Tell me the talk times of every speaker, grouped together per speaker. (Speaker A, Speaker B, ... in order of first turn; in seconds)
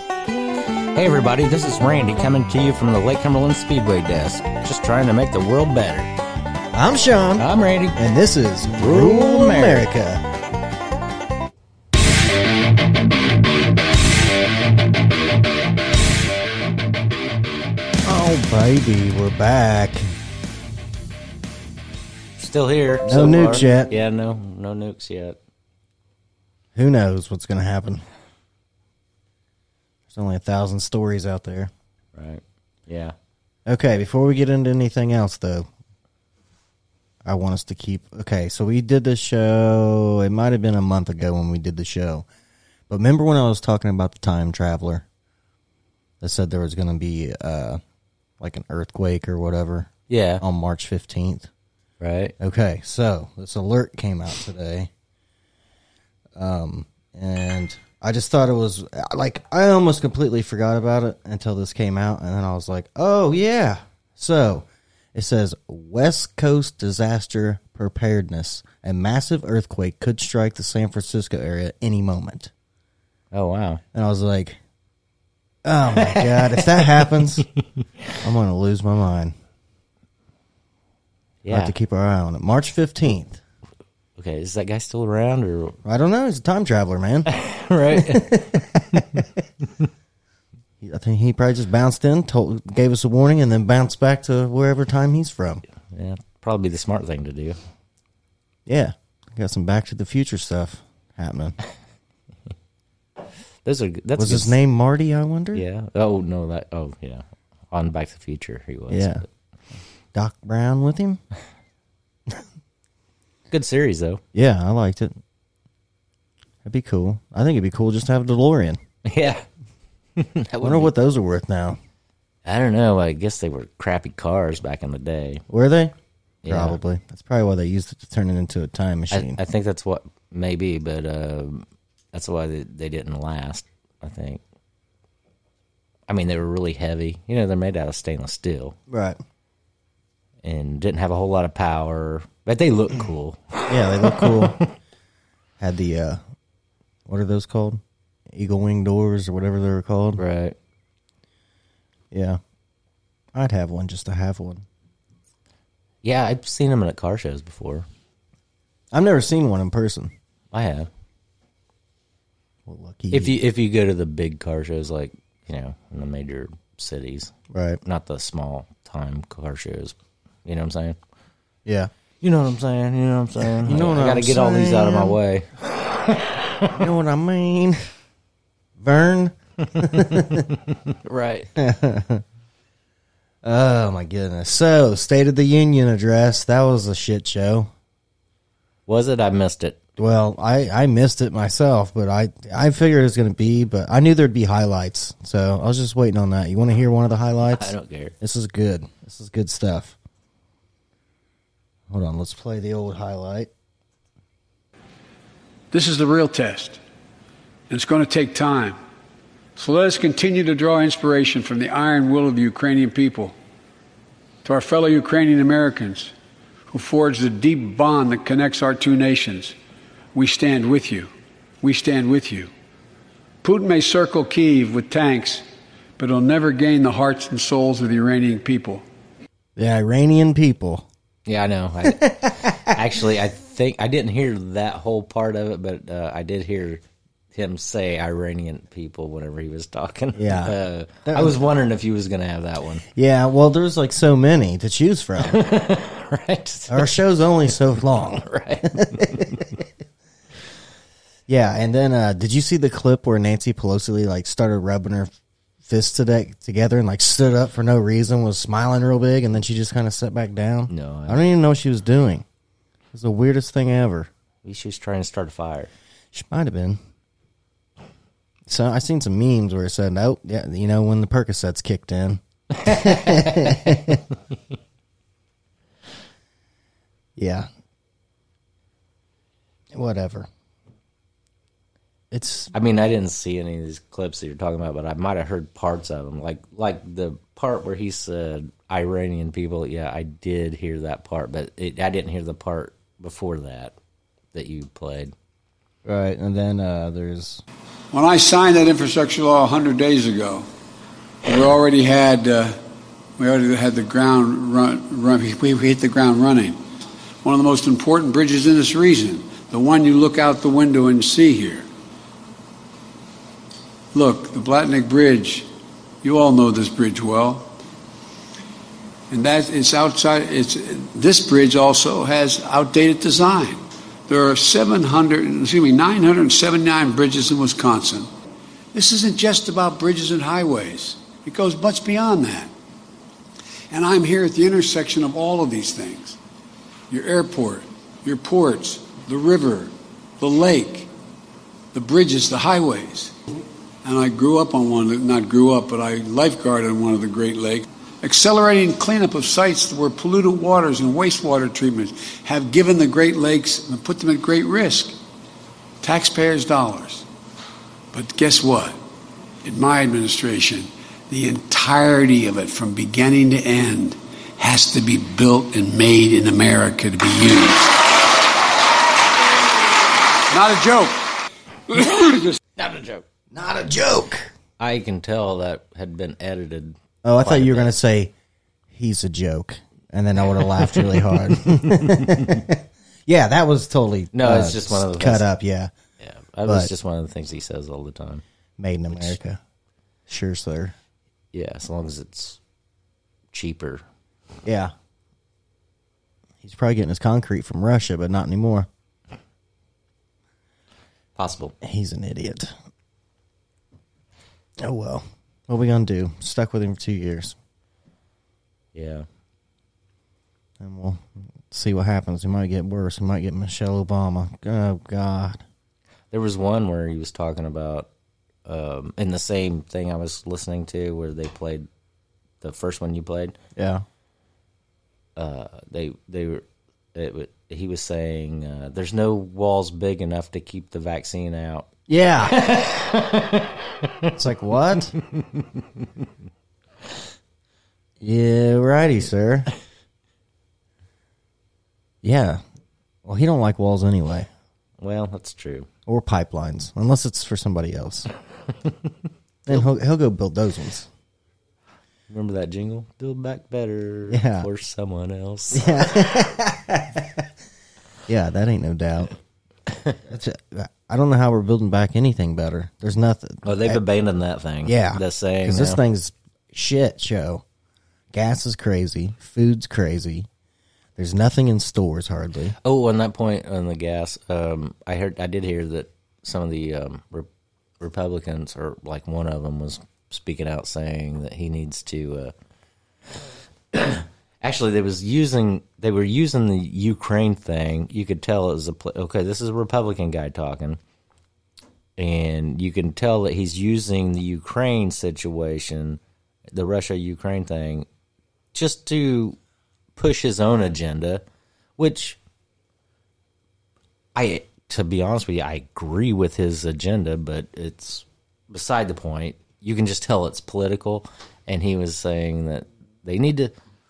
Speaker A: 0.9-6.1, 7.4-8.0, 8.8-9.8, 22.4-25.4, 32.1-33.1, 50.1-50.4, 52.0-52.3, 73.3-73.8, 76.0-77.4, 81.4-81.8, 84.2-85.8, 87.3-89.2, 95.9-97.6, 103.7-104.6, 105.5-109.3, 113.5-114.2, 119.0-119.5, 120.2-120.9, 122.5-125.4, 126.4-126.8, 129.1-134.4, 136.1-138.8, 140.4-144.7, 150.2-150.6, 156.0-157.9, 160.5-160.9, 163.1-167.3, 167.8-171.0, 172.2-176.8, 180.9-181.5, 188.9-189.8, 197.5-198.2, 231.3-236.8, 237.3-242.8, 245.2-247.0, 248.1-249.4, 260.7-261.3, 264.4-265.7, 272.6-273.8, 282.5-293.8, 294.3-295.1, 372.6-373.0, 374.6-377.7, 381.5-382.4, 384.1-385.3, 386.0-388.2, 388.9-389.2, 391.3-392.4, 393.3-393.8, 401.2-401.6, 408.7-409.1, 416.1-417.9, 418.5-421.7, 422.4-423.4, 425.2-431.7, 432.3-434.1, 435.2-435.6, 444.8-445.7, 452.1-456.1, 463.4-465.8, 472.6-477.3, 477.8-482.3, 483.7-490.8, 492.0-496.0, 496.5-497.9, 498.5-499.4, 500.0-501.2, 501.8-502.2, 504.1-513.5
Speaker B: 6.7-10.2, 18.0-20.1, 23.0-23.9, 26.8-28.1, 30.1-31.7, 33.7-35.7, 37.2-42.3, 42.9-45.1, 46.2-47.8, 48.4-51.5, 52.4-54.9, 56.4-72.5, 73.9-74.6, 75.7-77.5, 78.2-79.4, 81.5-83.4, 85.8-87.3, 87.9-89.3, 90.8-95.6, 98.7-101.6, 104.2-105.7, 108.9-109.2, 110.1-111.2, 114.3-115.2, 116.7-118.8, 120.6-121.8, 125.5-126.0, 126.5-129.4, 138.9-139.2, 143.7-144.6, 145.6-146.2, 147.1-150.2, 152.1-152.4, 153.3-154.7, 158.9-160.1, 162.7-163.4, 167.5-167.8, 173.4-175.2, 176.7-177.8, 178.8-180.5, 181.6-182.2, 183.4-187.7, 190.0-199.9, 201.9-203.5, 229.6-230.9, 231.8-232.8, 240.1-240.6, 241.1-241.3, 242.9-245.4, 246.7-249.7, 251.3-255.1, 255.6-262.3, 262.9-264.1, 266.1-266.8, 268.5-274.0, 277.2-277.5, 279.7-280.3, 282.1-282.5, 295.9-297.4, 373.3-374.3, 377.0-378.1, 378.7-385.7, 386.4-386.7, 388.6-389.4, 390.1-390.8, 394.4-394.7, 396.4-398.7, 401.6-402.5, 404.6-407.4, 410.6-415.4, 423.6-423.9, 431.9-432.4, 434.1-435.0, 438.0-439.5, 442.0-442.4, 443.1-444.3, 445.9-448.1, 449.5-450.9, 454.1-454.5, 455.5-457.3, 458.1-459.1, 460.0-463.8, 464.6-467.4, 468.1-470.3, 471.0-472.6
Speaker C: 205.7-206.8, 207.7-208.8, 209.6-213.3, 214.4-216.1, 216.7-219.6, 220.2-221.1, 221.6-222.5, 223.4-225.4, 226.0-228.8, 297.9-300.5, 301.3-302.6, 303.2-306.6, 307.2-311.6, 313.9-315.5, 316.0-317.5, 319.1-328.1, 328.7-332.5, 333.7-336.2, 336.9-340.9, 341.7-343.2, 343.8-355.0, 355.8-357.1, 357.9-358.8, 359.4-367.8, 370.3-371.0, 371.7-372.4